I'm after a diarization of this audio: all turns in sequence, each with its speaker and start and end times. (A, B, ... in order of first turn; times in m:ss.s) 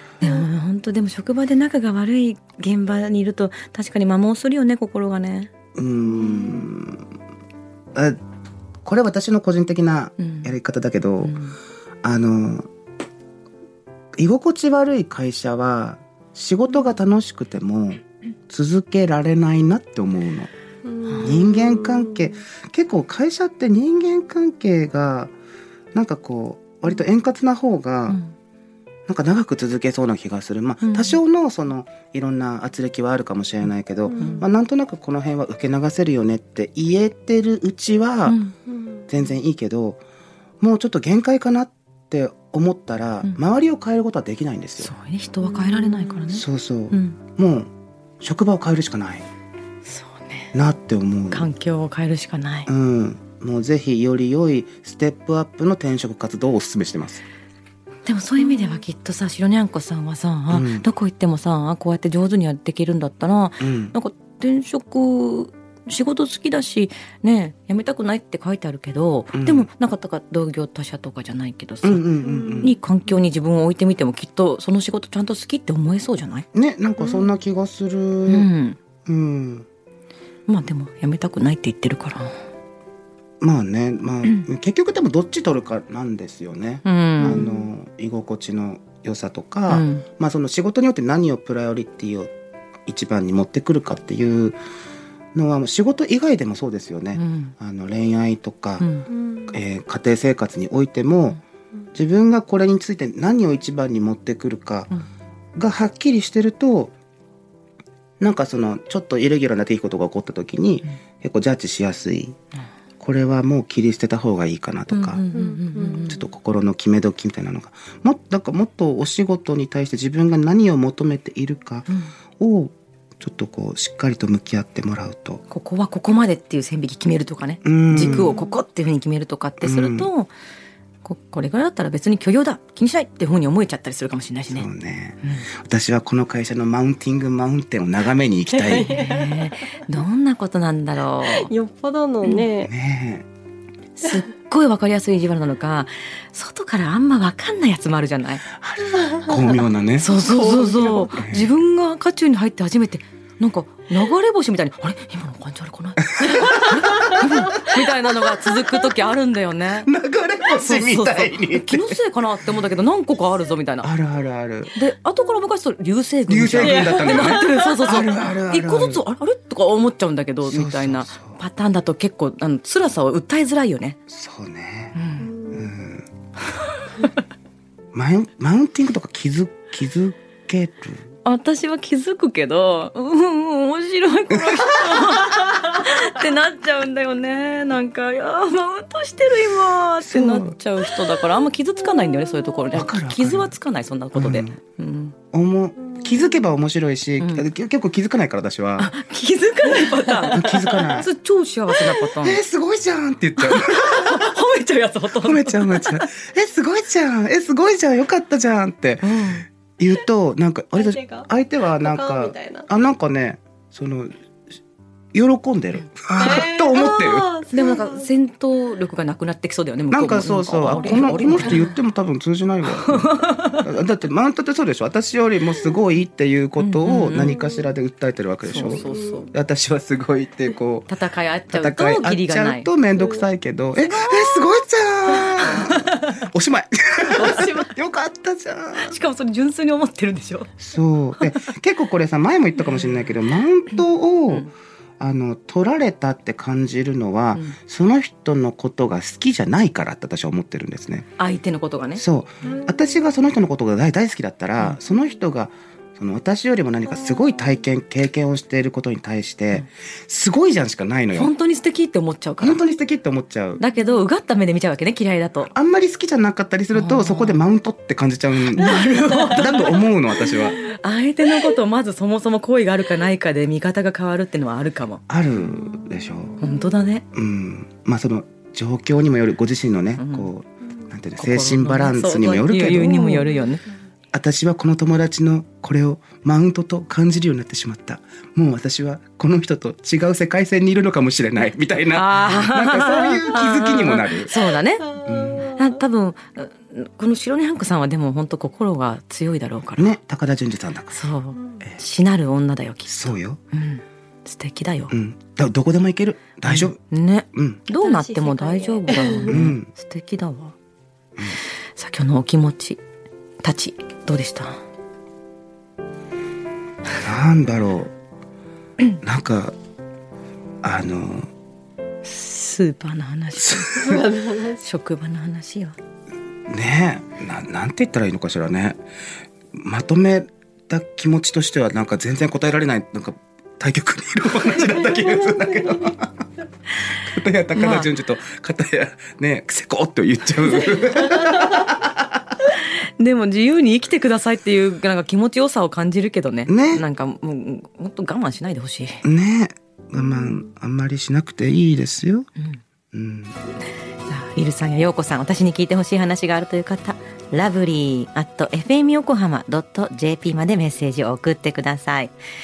0:00.2-0:05.5 A
0:00.2-0:00.5 B
0:05.8-0:07.0 C
0:06.1-0:06.6 B
0:08.8-0:11.3 C
0:10.2-0:10.5 A
0:11.2-0:11.6 A
0:12.0-0:12.7 C
0:14.2-0:20.5 C
0:20.9-0:22.2 B
0:21.1-0:21.4 A
0:21.2-0:25.3 C
0:25.9-0:28.2 C
0:29.1-0:38.4 C
0:30.8-0:31.2 A
0:34.1-0:34.4 B
0:34.2-0:34.4 A
0:38.2-0:38.6 A
0:39.1-0:40.0 C
0:40.6-0:44.9 C
0:44.8-0:47.2 A
0:46.3-0:47.7 C
0:48.2-0:49.2 C
0:49.8-0:50.5 A
0:50.5-0:51.5 C
0:51.3-0:52.7 A
0:52.7-0:57.2 C
0:58.0-1:12.1 A
1:00.5-1:00.9 C
1:03.6-1:03.9 C
1:09.3-1:09.7 C
1:11.8-1:12.7 C
1:12.2-1:12.7 B
1:12.6-1:16.4 A
1:16.5-1:18.5 C
1:18.3-1:18.8 A
1:19.1-1:19.7 C
1:20.5-1:22.3 A
1:23.4-1:32.3 C
1:26.8-1:27.7 A
1:29.7-1:30.1 A
1:32.9-1:34.6 C
1:35.3-1:38.9 C
1:37.2-1:37.5 A
1:38.8-1:39.1 A
1:39.1-1:39.5 B
1:39.5-1:41.4 C
1:41.9-1:44.9 C
1:45.6-1:46.9 C
1:48.2-1:52.4 C
1:53.0-1:55.3 C
1:54.9-1:56.2 A
1:55.3-1:56.2 B
1:55.8-2:01.9 C
2:01.9-2:02.1 A
2:02.4-2:05.4 C
2:05.5-2:10.3 A
2:07.6-2:08.4 C
2:08.2-2:08.5 B
2:09.6-2:10.1 C
2:11.0-2:14.7 A
2:14.5-2:18.9 C
2:15.2-2:15.5 A
2:18.5-2:19.5 B
2:18.7-2:21.5 A
2:21.2-2:22.7 B
2:22.6-2:23.3 C
2:24.0-2:28.4 A
2:28.6-2:31.5 C
2:30.0-2:39.9 A
2:36.1-2:37.5 C
2:39.8-2:42.0 C
2:40.5-2:43.9 A
2:43.8-2:44.7 C
2:44.7-2:54.0 A
2:46.3-2:49.0 C
2:46.7-2:47.7 B
2:50.4-2:51.4 C
2:54.1-2:55.0 C
2:54.9-2:55.4 A
2:55.2-2:55.7 B
2:55.5-2:56.1 C
2:57.9-3:01.0 C
3:01.2-3:15.2 A
3:04.3-3:05.2 C
3:10.0-3:10.6 C
3:12.7-3:13.6 C
3:14.2-3:14.6 C
3:15.3-3:18.9 C
3:17.2-3:17.4 A
3:18.8-3:22.4 A
3:20.1-3:21.1 C
3:22.1-3:24.3 C
3:23.4-3:26.1 A
3:25.2-3:34.1 C
3:29.0-3:29.5 A
3:30.7-3:31.3 B
3:31.8-3:32.7 B
3:35.1-3:37.3 C
3:35.8-3:36.4 A
3:36.2-3:38.1 B
3:37.5-3:41.7 A
3:39.9-3:50.9 C
3:40.8-3:41.6 B
3:42.8-3:43.6 A
3:46.6-3:47.4 A
3:47.2-3:47.7 B
3:48.5-3:49.3 A
3:48.5-3:49.3 B
3:50.9-3:52.7 A
3:51.5-3:59.0 C
3:52.9-3:53.2 B
3:53.8-3:54.4 A
3:55.2-3:56.2 A
3:57.1-3:57.7 A
3:58.8-4:00.5 A
4:00.6-4:04.5 C
4:01.2-4:01.4 A
4:02.6-4:03.1 A
4:03.7-4:04.5 A
4:05.0-4:11.1 C
4:11.2-4:12.0 A
4:12.0-4:21.3 C
4:21.1-4:22.6 A
4:22.4-4:23.6 C
4:23.6-4:25.5 A
4:25.5-4:30.6 C
4:26.7-4:27.4 A
4:28.5-4:35.0 A
4:35.1-4:36.4 C
4:36.4-4:37.0 A
4:37.1-4:43.3 C
4:40.0-4:40.3 A
4:41.2-4:43.7 A
4:44.1-4:54.3 C
4:51.9-4:59.9 A
4:54.9-4:55.6 B
4:55.0-4:55.6 C
4:59.8-5:01.0 C
5:00.9-5:04.9 A
5:01.3-5:01.6 B
5:02.9-5:03.4 C
5:04.9-5:06.8 C
5:06.4-5:10.6 A
5:07.3-5:07.6 C
5:07.8-5:09.4 B
5:09.3-5:09.7 C
5:11.7-5:12.8 A
5:13.4-5:14.6 A
5:17.0-5:17.9 C
5:19.0-5:19.5 C
5:20.6-5:21.3 C
5:22.0-5:25.8 A
5:23.4-5:24.0 C
5:23.8-5:24.6 B
5:26.5-5:28.8 C
5:29.6-5:36.2 C
5:36.9-5:42.2 C
5:37.5-5:37.9 A
5:42.4-5:49.0 A
5:46.5-5:46.8 C
5:49.0-5:52.3 C
5:52.9-5:53.3 C
5:54.0-6:02.1 A